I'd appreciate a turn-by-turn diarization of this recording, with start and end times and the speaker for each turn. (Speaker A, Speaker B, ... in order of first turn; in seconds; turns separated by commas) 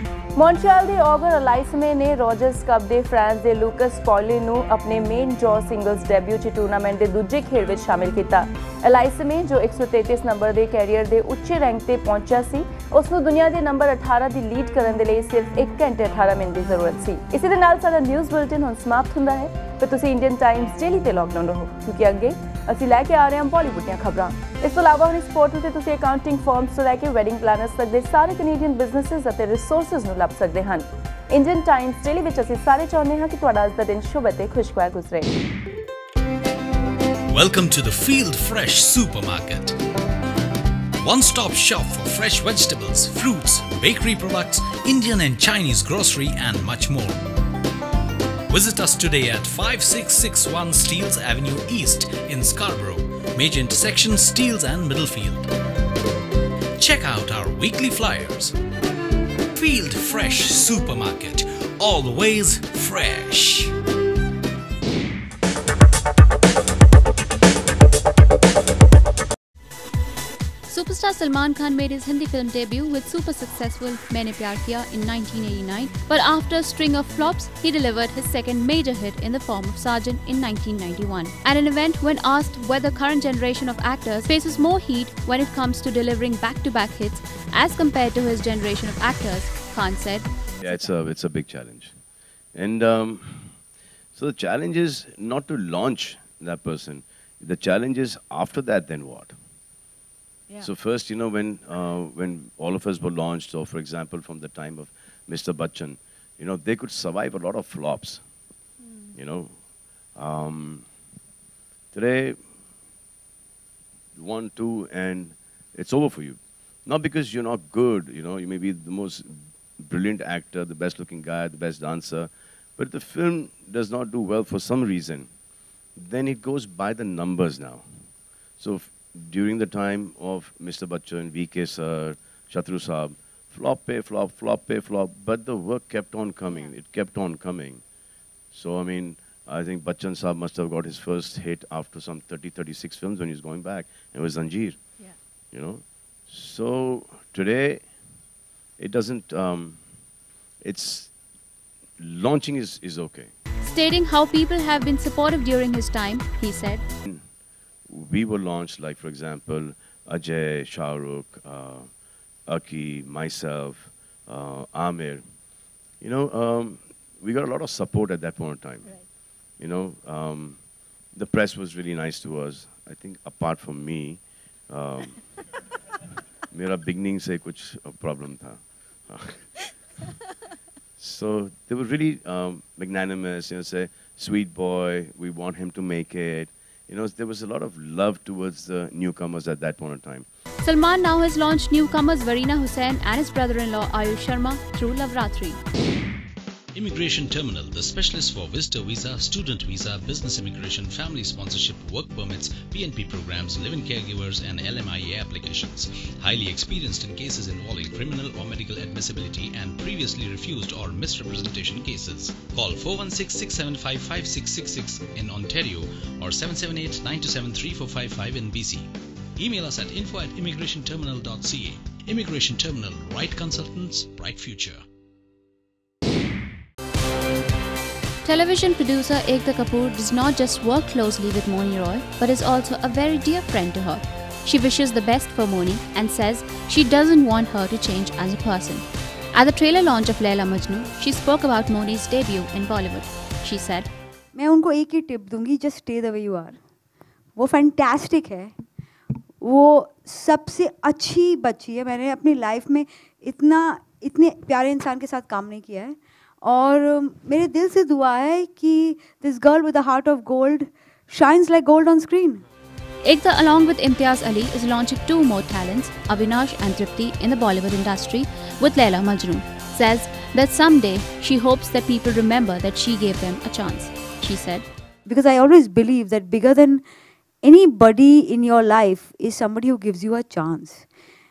Speaker A: 0.4-35.3, Speaker B: 37.3-39.8, Speaker B: 41.0-47.2, Speaker B: 48.5-55.5, Speaker B: 56.8-58.5, Speaker B: 59.5-63.7, Speaker C: 70.7-90.8, Speaker D: 90.6-92.0, Speaker D: 92.5-93.5, Speaker D: 94.2-99.3, Speaker D: 100.6-108.2, Speaker D: 109.1-109.5, Speaker D: 110.2-110.8, Speaker D: 111.9-112.4, Speaker D: 114.2-125.3, Speaker D: 126.0-127.8, Speaker D: 128.6-137.8, Speaker D: 138.5-144.8, Speaker D: 145.5-147.8, Speaker D: 148.8-149.8, Speaker D: 150.6-151.1, Speaker D: 152.0-153.3, Speaker C: 153.6-156.8, Speaker D: 157.9-161.9, Speaker D: 162.5-165.2, Speaker D: 166.0-169.0, Speaker D: 169.6-170.6, Speaker D: 171.1-175.3, Speaker D: 176.5-179.5, Speaker D: 181.0-190.3, Speaker C: 190.6-195.6, Speaker B: 196.8-224.8, Speaker C: 228.2-243.9, Speaker E: 244.3-246.6, Speaker E: 247.4-248.5, Speaker E: 249.4-262.4, Speaker C: 263.0-274.6, Speaker E: 275.1-276.8, Speaker E: 277.4-280.9